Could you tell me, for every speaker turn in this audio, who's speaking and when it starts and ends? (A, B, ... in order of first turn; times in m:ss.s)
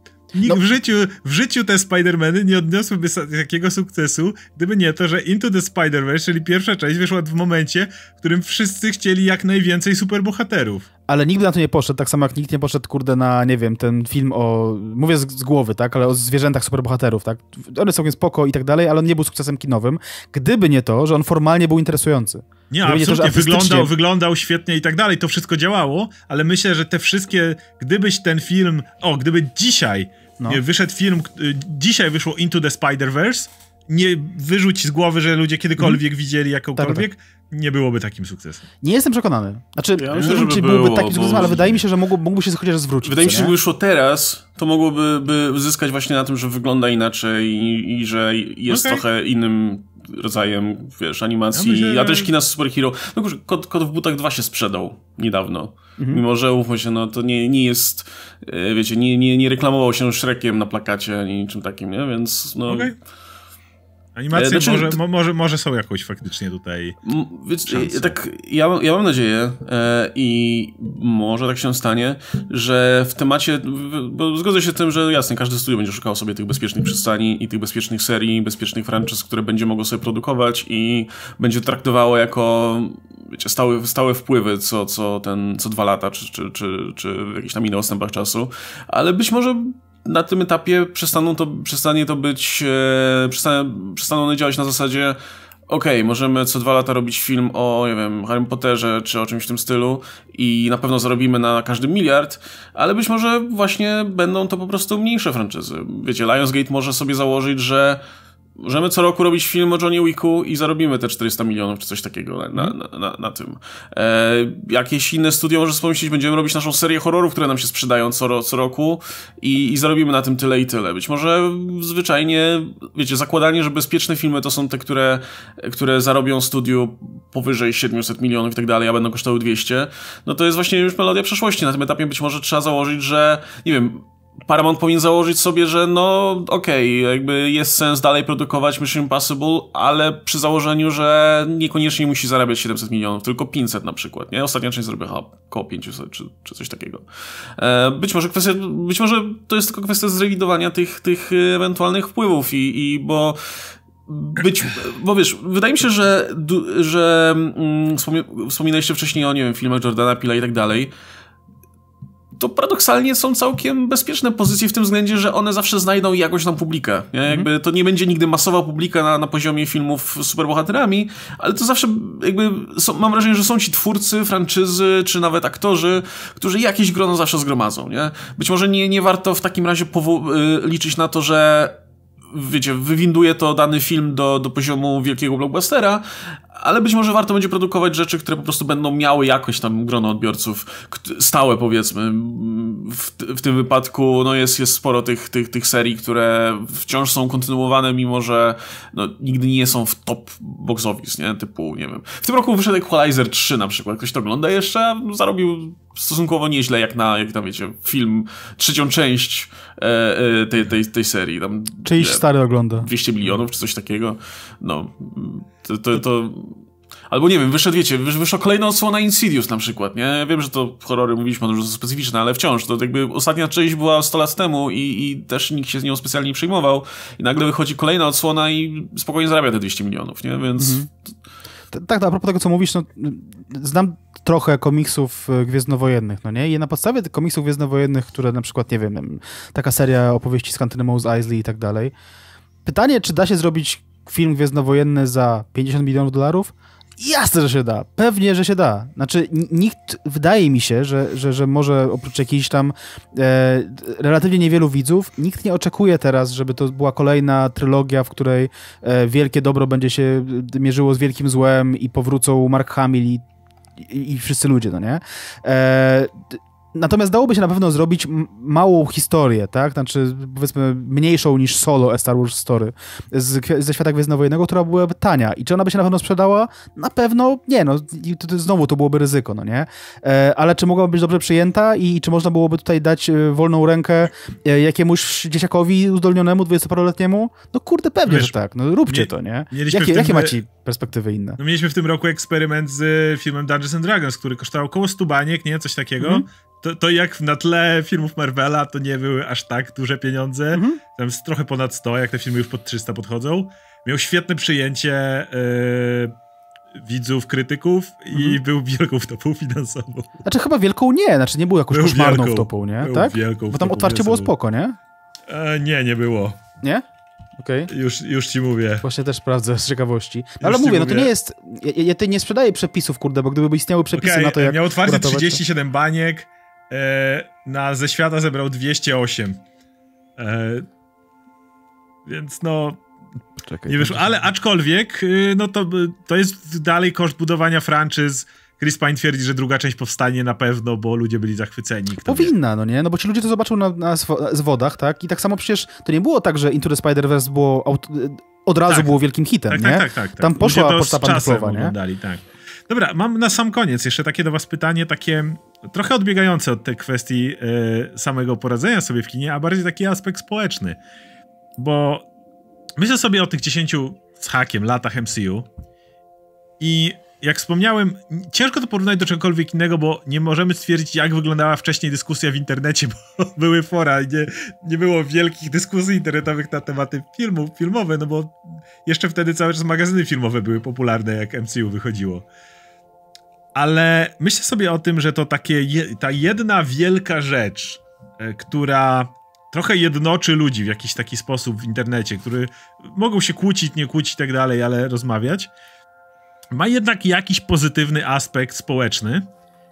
0:00.3-0:10.9 A
0:11.1-0:23.9 B
0:22.7-0:38.6 A
0:36.8-0:37.1 B
0:38.8-0:43.6 B
0:40.0-0:41.8 C
0:40.2-0:40.5 A
0:43.0-1:03.0 C
0:48.7-0:49.0 A
0:51.6-0:52.3 A
1:02.7-1:03.0 A
1:04.2-1:07.0 A
1:04.3-1:05.0 C
1:07.0-1:35.2 C
1:07.7-1:08.2 A
1:35.7-1:48.0 C
1:48.6-2:40.9 C
2:42.4-3:01.8 C
3:02.3-3:32.2 C
3:31.8-3:32.9 B
3:32.8-3:50.9 C
3:50.6-3:50.9 B
3:51.7-4:01.9 B
4:02.6-4:23.2 B
4:23.8-4:51.4 B
4:48.1-4:48.3 A
4:48.9-4:50.4 A
4:51.4-5:06.1 A
5:00.5-5:00.8 B
5:06.8-5:10.2 A
5:10.2-5:14.8 B
5:11.7-5:14.3 A
5:15.3-5:16.4 A
5:17.4-5:17.7 B
5:17.7-5:18.8 A
5:18.8-5:25.4 B
5:20.4-5:21.1 A
5:23.9-5:29.4 A
5:30.2-5:30.7 A
5:32.1-5:32.8 A
5:33.4-5:34.3 B
5:33.7-5:42.3 A
5:42.0-5:51.7 B
5:49.5-6:00.8 A
6:01.6-6:02.1 A
6:02.8-6:05.5 A
6:06.6-6:22.2 A
6:23.6-6:35.5 A
6:36.5-6:39.3 A